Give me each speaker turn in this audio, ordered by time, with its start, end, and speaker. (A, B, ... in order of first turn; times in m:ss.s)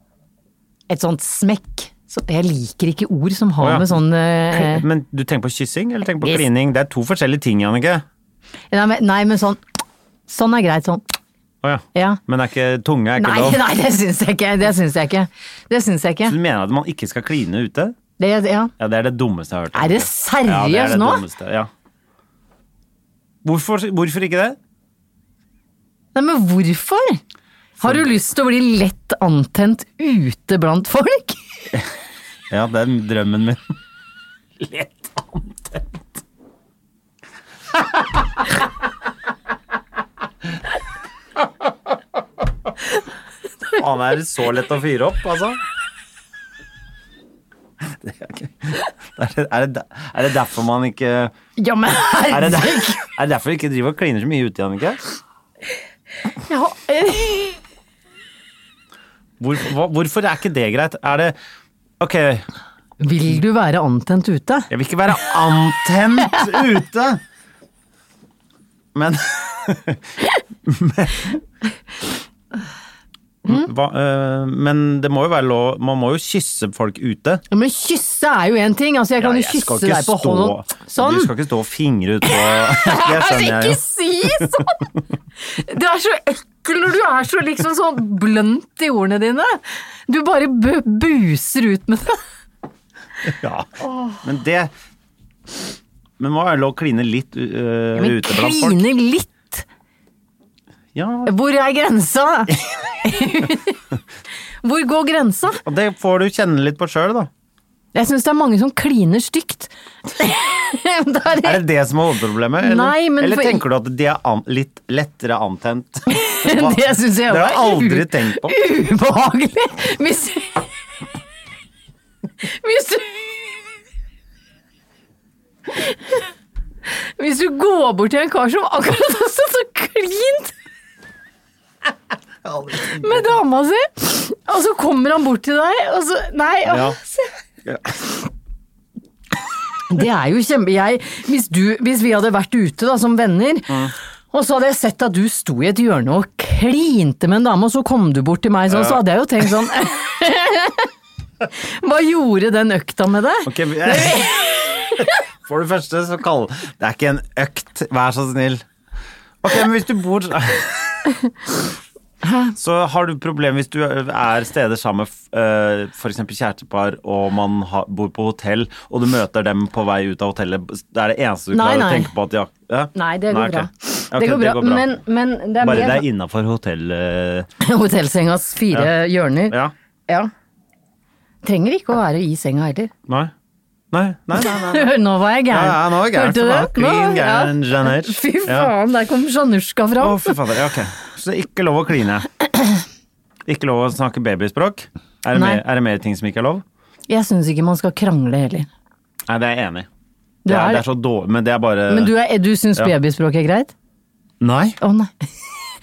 0:00.9-0:04.8 A
0:03.6-0:08.0 B
0:08.7-0:09.6 A
0:10.3-0:11.1 A
0:11.6-0:13.6 B
0:11.9-0:12.2 A
0:13.2-0:16.3 A
0:16.2-0:17.9 B
0:18.2-0:18.7 A
0:18.8-0:21.7 B
0:19.7-0:21.2 A
0:23.4-0:24.6 B
0:26.1-0:27.2 A
0:27.8-0:31.4 A
0:32.5-0:33.7 B
0:34.6-0:36.0 B
0:43.7-0:45.6 B
0:47.8-0:51.3 B
0:51.6-0:53.1 A
0:52.3-0:55.0 B
0:56.4-0:57.6 A
0:59.4-1:01.4 B
1:02.0-1:02.4 B
1:03.0-1:04.7 A
1:04.7-1:07.2 B
1:08.9-1:11.4 B
1:13.4-1:17.4 B
1:17.5-1:21.3 A
1:19.2-1:23.8 B
1:22.2-1:24.9 A
1:24.3-1:24.6 B
1:25.4-1:32.2 A
1:33.3-1:34.7 B
1:33.8-1:34.2 A
1:36.2-1:38.8 B
1:37.9-1:39.6 A
1:40.9-1:41.3 B
1:41.2-1:43.8 A
1:44.6-1:45.6 A
1:45.6-1:47.3 B
1:47.9-1:51.6 A
1:51.4-1:58.6 B
1:52.6-1:53.6 A
1:56.1-2:00.6 A
2:02.4-2:03.3 A
2:05.8-2:06.2 A
2:07.2-2:10.5 A
2:12.4-2:13.2 B
2:12.8-2:17.3 A
2:16.7-2:17.0 B
2:17.6-2:18.0 B
2:19.9-2:30.9 A
2:28.7-2:29.0 B
2:31.5-2:35.1 A
2:33.4-2:38.6 B
2:39.4-2:41.0 B
2:42.2-2:42.5 A
2:42.6-2:54.9 B
2:51.5-2:52.1 A
2:52.9-2:56.0 A
2:55.6-2:57.5 B
2:57.6-3:00.3 A
3:01.4-3:02.9 A
3:03.9-3:04.9 B
3:04.4-3:10.4 A
3:05.5-3:08.7 B
3:10.0-3:12.4 B
3:13.4-3:16.6 B
3:15.3-3:15.6 A
3:17.1-3:18.7 A
3:19.3-3:19.9 B
3:20.4-3:20.8 A
3:20.4-3:22.1 B
3:21.9-3:23.7 A
3:24.4-3:24.8 B
3:24.8-3:25.1 A